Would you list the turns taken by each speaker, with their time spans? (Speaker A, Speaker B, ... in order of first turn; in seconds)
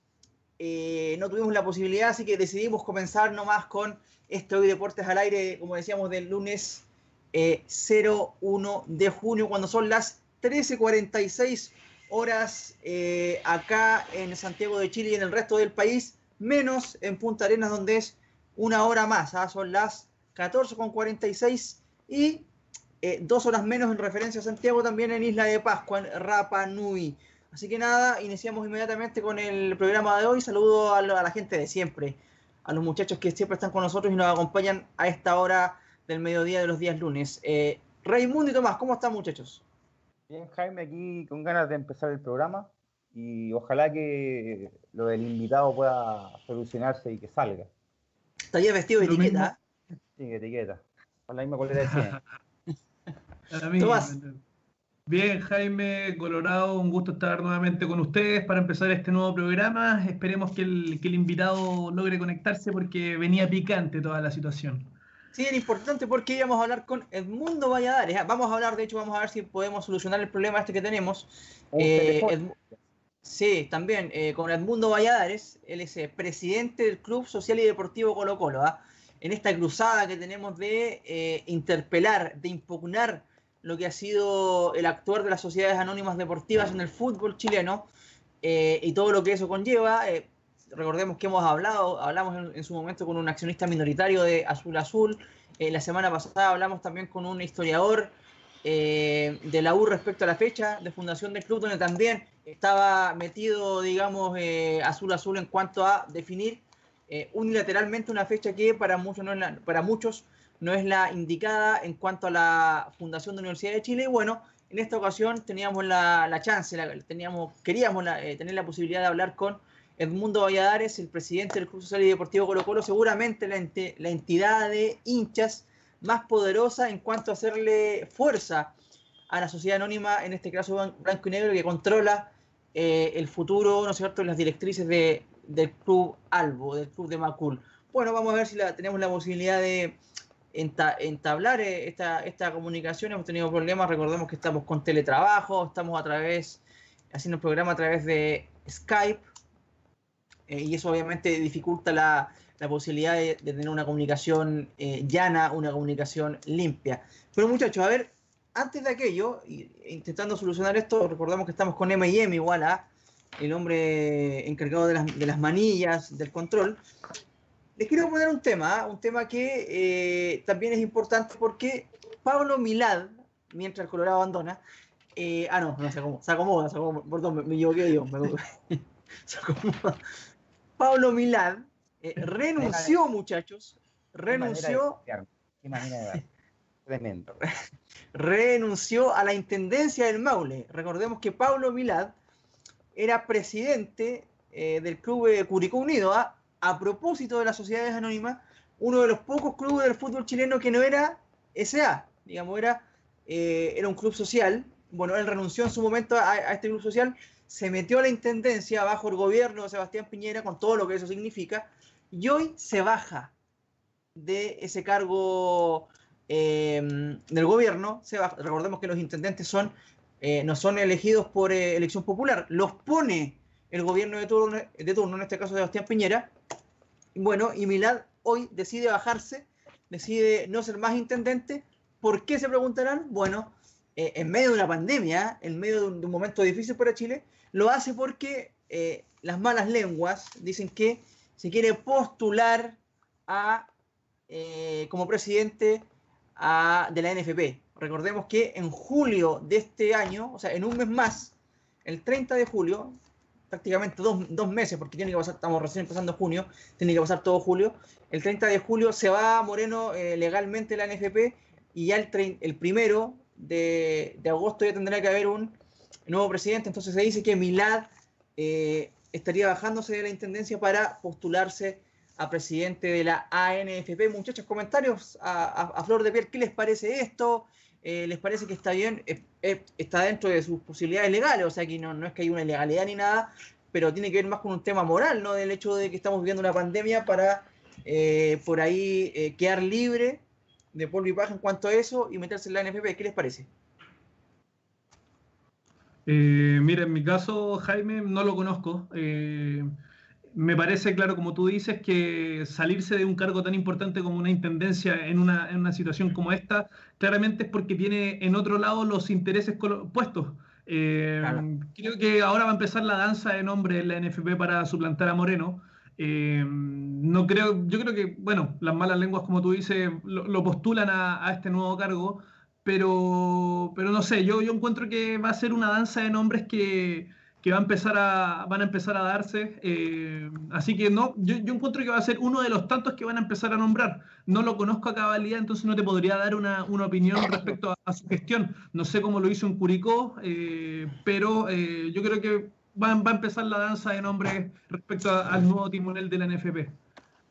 Speaker A: 0.6-22.4, 23.0-39.6, 48.5-49.5, 53.8-54.1, 65.3-72.5, 73.2-87.9, 88.4-98.1, 98.6-128.7, 129.3-140.0, 140.5-149.2, 150.5-166.8, 167.8-174.6, 175.2-180.0, 180.8-185.0, 188.1-192.1, 192.9-213.3, 214.2-226.3, 227.1-243.7, 244.3-245.8, 246.4-251.3, 251.8-252.9, 253.5-265.6, 266.1-290.2, 290.7-293.5
Speaker B: 40.3-47.7, 50.2-52.2, 71.7-72.4, 182.6-183.0, 184.3-186.3, 186.8-187.3
Speaker C: 49.0-49.5, 53.5-54.4, 55.1-64.9, 296.1-299.7, 300.3-346.7